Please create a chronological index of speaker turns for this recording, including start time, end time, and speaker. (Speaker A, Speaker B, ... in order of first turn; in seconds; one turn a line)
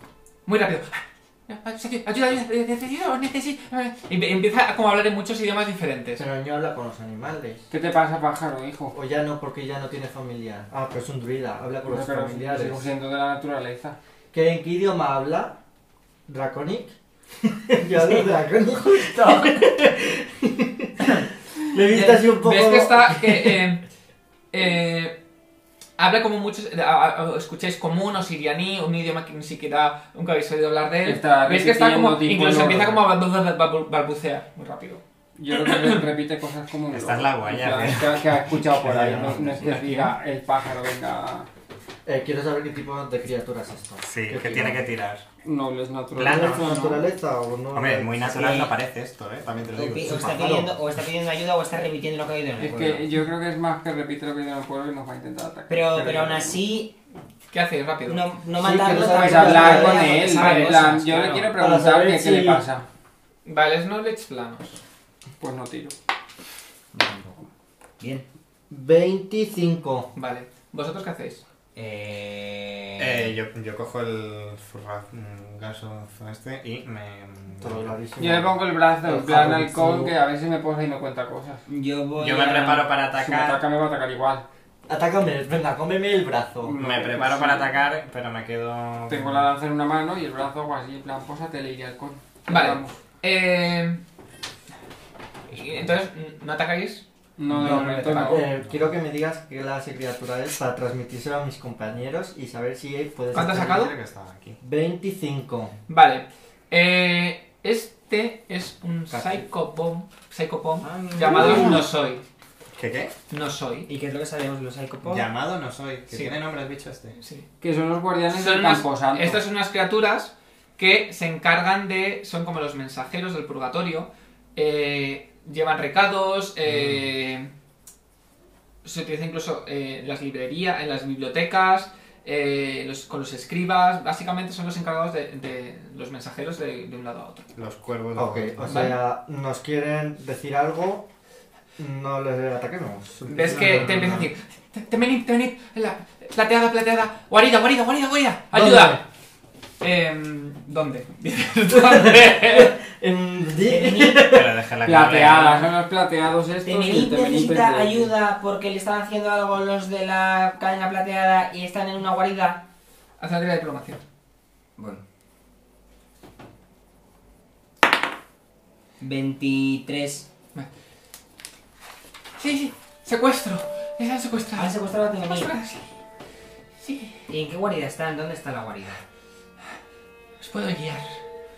Speaker A: 0.5-6.2
Speaker B: 6.2-7.7
Speaker C: 7.7-8.9
Speaker B: 8.9-12.9
Speaker C: 11.9-14.0
Speaker B: 14.3-15.6
Speaker B: 16.3-21.2
Speaker D: 18.0-18.3
Speaker D: 18.8-19.7
Speaker B: 21.7-23.6
Speaker A: 21.8-23.8
Speaker A: 24.5-25.2
Speaker A: 26.0-36.0
Speaker C: 31.0-33.0
Speaker C: 35.4-41.5
Speaker E: 36.9-40.0
Speaker B: 38.9-39.5
Speaker B: 42.0-44.9
Speaker E: 44.0-45.2
Speaker C: 45.4-46.7
Speaker E: 46.1-47.0
Speaker B: 46.2-48.6
Speaker E: 47.7-50.4
Speaker D: 48.3-48.7
Speaker D: 49.7-53.0
Speaker B: 50.0-50.8
Speaker C: 52.6-56.5
Speaker D: 55.7-57.0
Speaker A: 57.5-58.2
Speaker D: 58.0-61.5
Speaker B: 58.5-60.3
Speaker C: 59.0-62.9
Speaker A: 59.8-61.1
Speaker B: 61.5-62.6
Speaker A: 63.5-64.8
Speaker C: 65.4-65.9
Speaker D: 66.9-67.5
Speaker D: 68.0-68.2
Speaker B: 68.7-70.1
Speaker A: 70.1-71.4
Speaker D: 71.7-73.3
Speaker E: 73.0-78.0
Speaker B: 77.6-80.1
Speaker C: 78.2-81.6
Speaker D: 81.7-82.9
Speaker E: 82.2-83.6
Speaker C: 83.1-84.4
Speaker B: 84.9-86.7
Speaker C: 86.6-87.8
Speaker E: 86.8-89.5
Speaker C: 89.1-93.0
Speaker A: 92.5-94.0
Speaker A: 95.5-97.0
Speaker E: 95.5-95.9
Speaker C: 97.4-98.5
Speaker B: 97.5-103.9
Speaker E: 97.5-97.8
Speaker E: 98.4-98.8
Speaker A: 103.3-103.9
Speaker E: 103.4-104.6
Speaker B: 104.6-105.7
Speaker A: 105.9-112.2
Speaker B: 109.1-109.5
Speaker D: 110.8-111.8
Speaker E: 111.2-111.8
Speaker E: 112.8-113.1
Speaker A: 113.3-113.9
Speaker D: 113.9-115.3
Speaker E: 115.0-117.2
Speaker A: 116.1-116.4
Speaker A: 117.2-117.5
Speaker C: 117.6-119.4
Speaker A: 118.3-127.5
Speaker A: 128.8-137.5
Speaker E: 137.5-138.9
Speaker B: 138.2-141.1
Speaker B: 141.8-144.3
Speaker A: 143.3-149.0
Speaker B: 148.5-149.0
Speaker A: 149.8-152.8
Speaker B: 151.7-154.5
Speaker D: 153.6-154.3
Speaker E: 154.3-155.7
Speaker C: 154.8-158.1
Speaker D: 156.6-162.6
Speaker A: 163.2-164.0
Speaker D: 164.8-165.0
Speaker D: 169.0-170.3
Speaker A: 172.4-175.9
Speaker D: 174.5-175.5
Speaker A: 176.8-177.2
Speaker D: 177.3-179.0
Speaker A: 180.4-181.2